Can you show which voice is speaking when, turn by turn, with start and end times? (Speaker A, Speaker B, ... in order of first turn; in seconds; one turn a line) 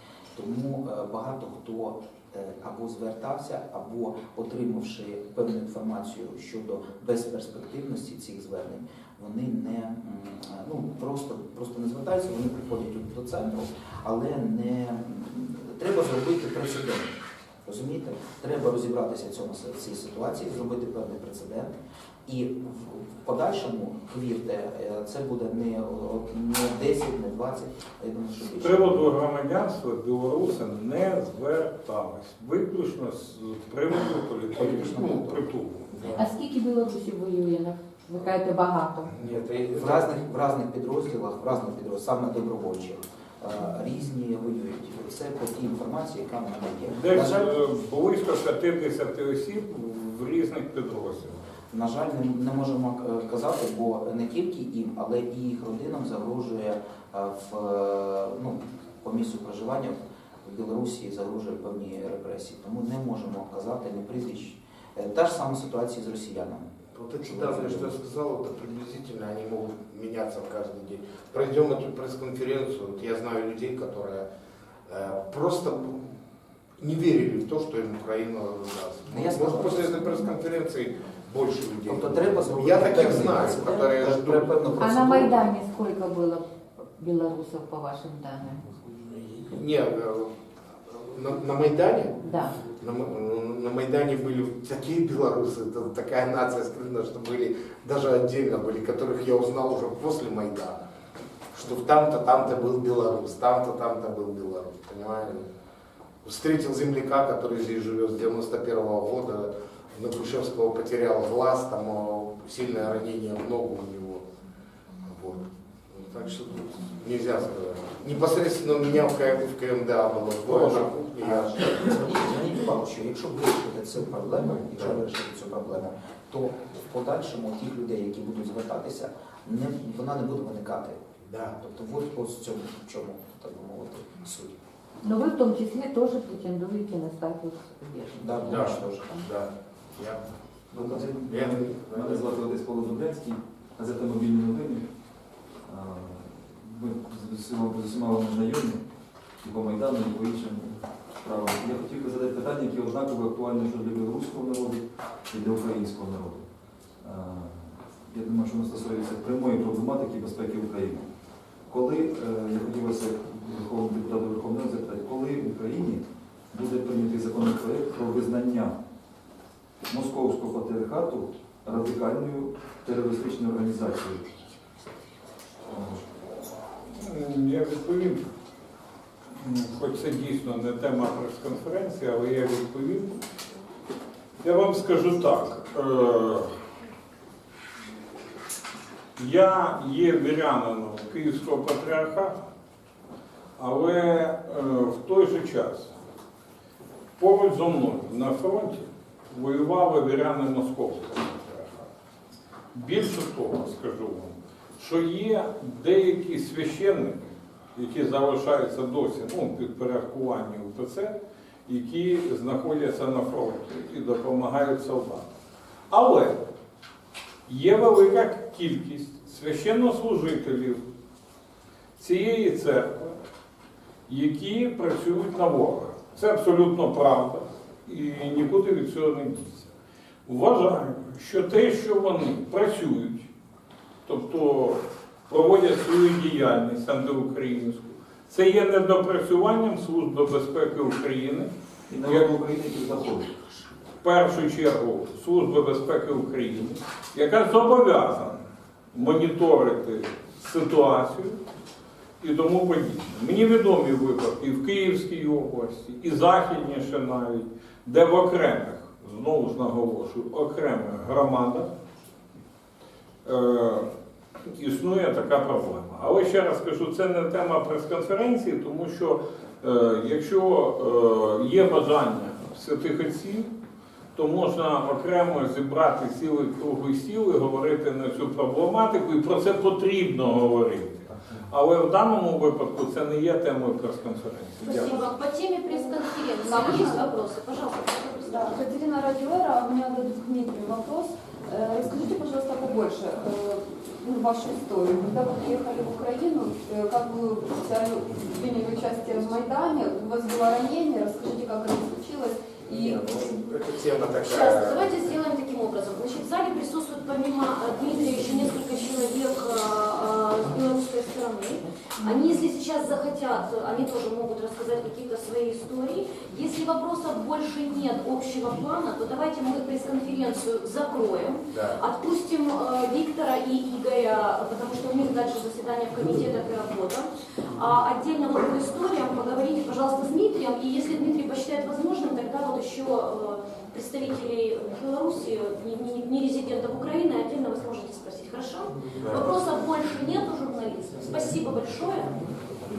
Speaker A: 0.3-29.1
Speaker B: 28.6-36.1
Speaker A: 34.5-35.5
Speaker C: 35.9-36.2
Speaker D: 36.1-39.1
Speaker C: 39.1-40.1
Speaker A: 39.7-47.5
Speaker B: 47.0-51.4
Speaker A: 51.7-66.7
Speaker C: 66.9-74.3
Speaker A: 67.2-68.0
Speaker C: 74.9-76.0
Speaker C: 76.8-84.6
Speaker A: 79.1-80.4
Speaker A: 81.8-85.5
Speaker D: 84.8-88.7
Speaker C: 88.9-90.3
Speaker C: 90.9-100.8
Speaker D: 92.2-92.5
Speaker C: 101.5-105.5
Speaker C: 106.2-114.2
Speaker C: 115.0-121.9
Speaker A: 120.5-131.0
Speaker C: 124.7-125.0
Speaker C: 131.2-131.6
Speaker A: 131.6-134.6
Speaker D: 135.0-139.2
Speaker A: 138.2-139.1
Speaker C: 138.5-142.4
Speaker E: 140.7-144.9
Speaker E: 145.7-148.8
Speaker E: 149.4-156.5
Speaker E: 157.0-161.1
Speaker E: 161.7-168.8
Speaker E: 169.9-174.4
Speaker E: 175.7-176.0
Speaker B: 177.0-178.2
Speaker B: 179.3-183.2
Speaker B: 184.4-186.5
Speaker B: 189.2-192.3
Speaker B: 193.6-195.9
Speaker B: 197.2-201.9
Speaker B: 202.7-211.2
Speaker B: 211.7-215.2
Speaker B: 215.9-216.4
Speaker B: 217.5-220.8
Speaker B: 222.0-223.2
Speaker B: 224.1-229.7
Speaker B: 230.3-233.3
Speaker B: 234.1-241.5
Speaker E: 241.9-243.4
Speaker B: 242.1-242.3
Speaker B: 244.0-248.4
Speaker B: 248.9-251.4
Speaker B: 252.2-261.7
Speaker B: 263.2-263.9
Speaker B: 264.6-273.5
Speaker B: 274.2-285.0
Speaker F: 284.6-288.6
Speaker G: 284.7-285.1
Speaker G: 285.7-287.2
Speaker G: 288.2-303.1
Speaker C: 302.7-304.9
Speaker F: 304.2-342.3
Speaker C: 321.5-321.8
Speaker C: 339.0-339.3